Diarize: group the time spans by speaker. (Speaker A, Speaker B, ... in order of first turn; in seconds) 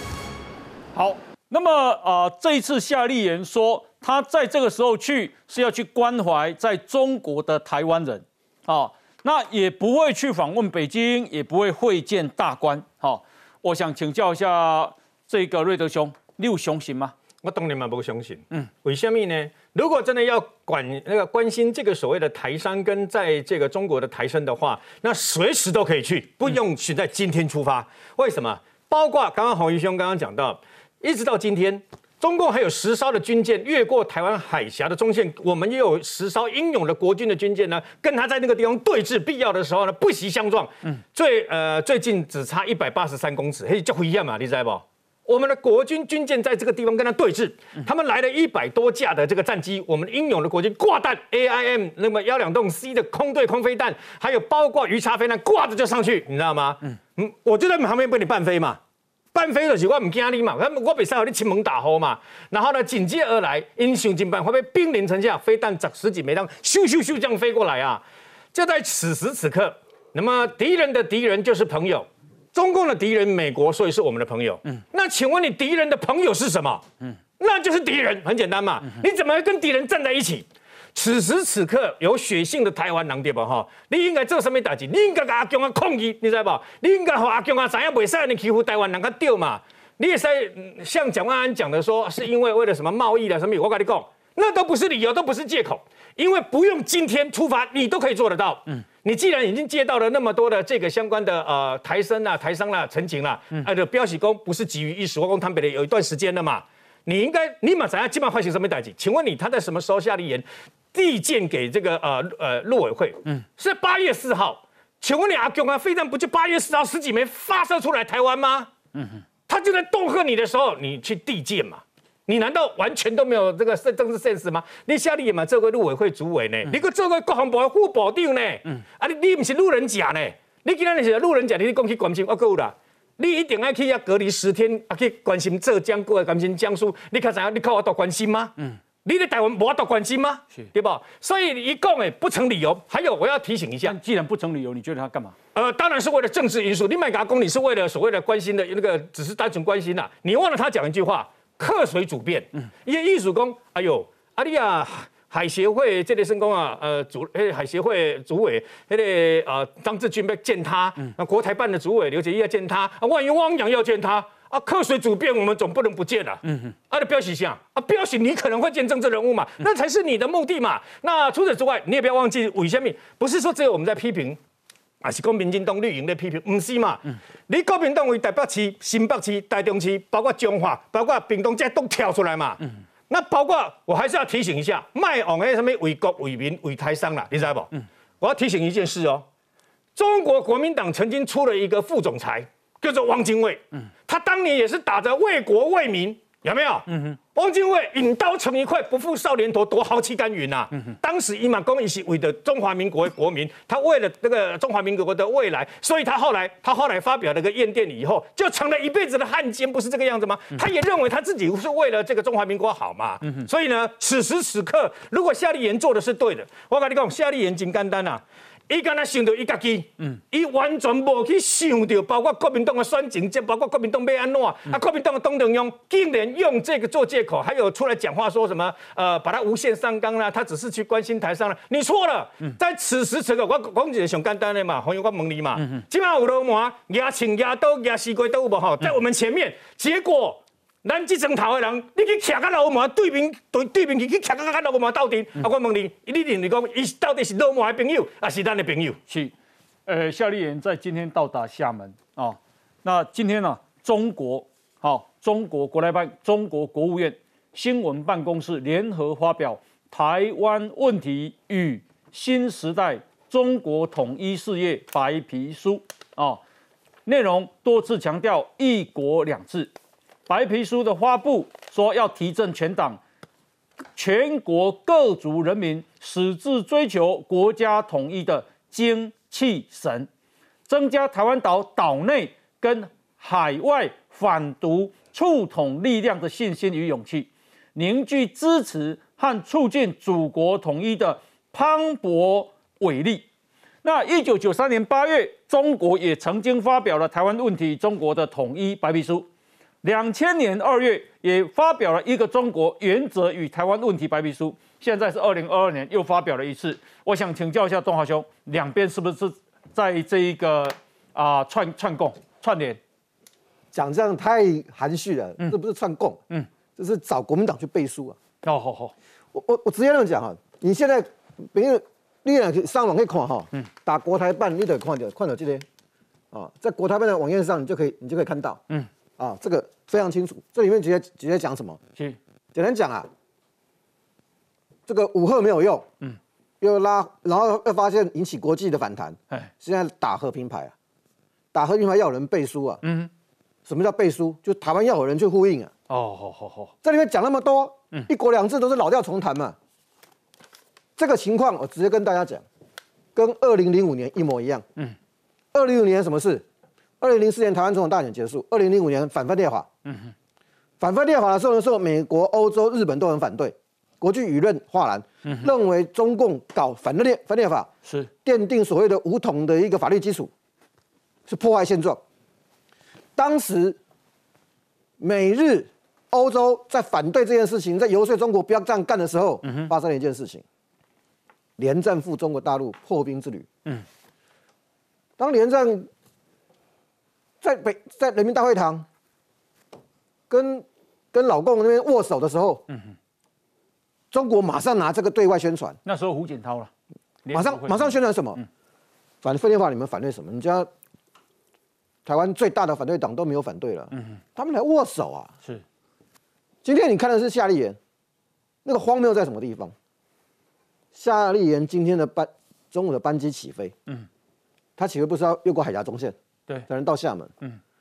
Speaker A: 0.9-17.1, 143.8-145.3, 196.9-197.2, 249.1-249.3, 249.9-266.4, 267.1-269.7, 270.3-273.0, 274.0-280.1, 280.7-293.3, 293.8-299.3, 299.8-312.8, 318.4-318.9, 342.8-343.1, 345.9-346.7, 359.9-360.1, 365.2-365.5, 379.4-379.7, 392.7-392.9, 395.8-396.7, 397.2-398.5, 403.9-404.2
Speaker B: 17.4-58.8, 59.3-68.0, 68.5-76.8, 77.4-118.7, 119.5-143.9, 145.5-174.4, 175.0-189.2, 189.9-249.0
Speaker C: 313.7-316.2, 316.8-318.2, 319.3-325.6, 326.3-328.6, 329.2-331.8, 332.5-333.1, 334.9-335.9, 336.6-340.7, 341.5-342.8, 343.6-345.7, 346.8-349.6, 351.0-352.4, 353.1-354.6, 355.5-356.4, 357.0-359.7, 360.8-367.7, 368.2-370.3, 371.3-372.0, 373.1-373.8, 375.0-380.4, 381.6-383.5, 385.2-385.9, 387.4-388.9, 390.3-392.6, 394.1-395.8, 397.3-398.4, 399.2-400.7, 402.0-405.3, 406.6-407.8, 408.6-409.7, 410.9-413.7, 414.8-416.1, 416.7-417.3